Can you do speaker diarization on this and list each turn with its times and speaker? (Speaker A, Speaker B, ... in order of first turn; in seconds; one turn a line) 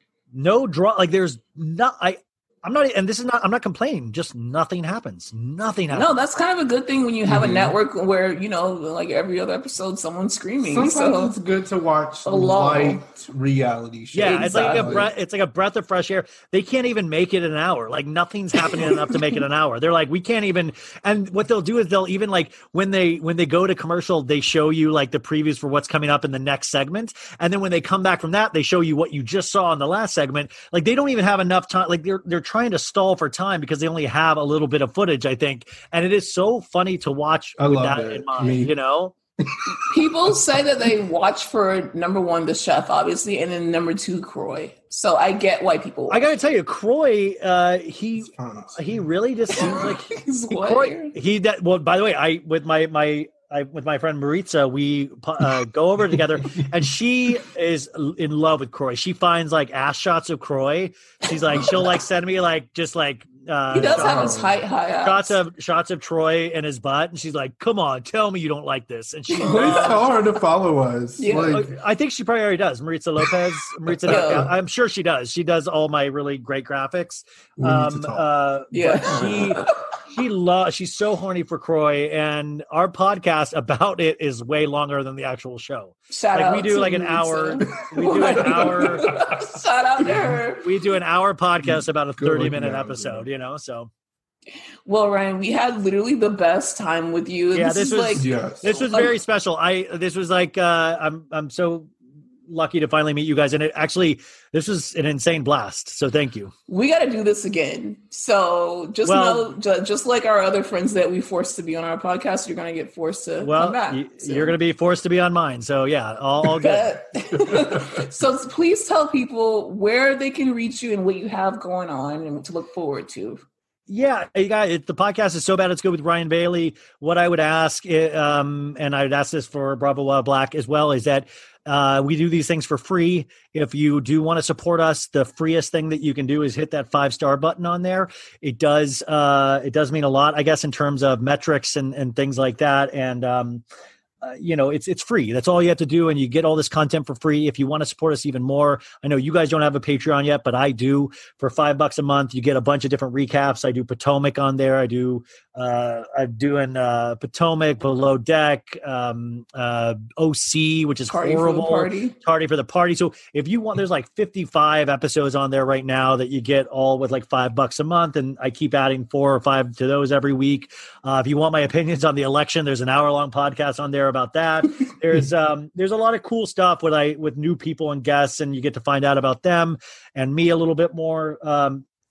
Speaker A: 0.3-6.2
Speaker B: 5.9-11.4
Speaker C: 7.3-7.7
Speaker C: 10.6-15.1
Speaker B: 12.2-13.0
Speaker A: 14.1-39.1
Speaker B: 14.2-15.0
Speaker B: 18.7-19.4
Speaker C: 37.6-38.7
Speaker C: 39.4-39.9
Speaker B: 39.9-46.2
Speaker A: 46.1-64.4
Speaker C: 48.2-49.0
Speaker B: 49.5-51.1
Speaker B: 61.5-61.9
Speaker B: 63.7-65.4
Speaker C: 63.7-64.6
Speaker A: 65.0-70.0
Speaker B: 69.3-70.2
Speaker C: 69.5-71.7
Speaker B: 71.2-71.6
Speaker A: 71.4-89.2
Speaker B: 74.1-74.5
Speaker C: 74.1-74.5
Speaker C: 77.6-78.2
Speaker B: 78.7-79.7
Speaker B: 86.1-90.7
Speaker C: 88.3-89.3
Speaker C: 90.0-90.4
Speaker A: 90.6-93.9
Speaker C: 91.6-93.3
Speaker B: 94.9-99.1
Speaker A: 97.5-101.9
Speaker C: 98.2-98.8
Speaker A: 102.5-106.5
Speaker B: 106.7-114.5
Speaker A: 109.1-109.5
Speaker A: 113.4-117.0
Speaker B: 116.5-123.5
Speaker C: 117.5-118.0
Speaker A: 123.9-143.6
Speaker A: 144.2-181.8
Speaker B: 161.1-162.2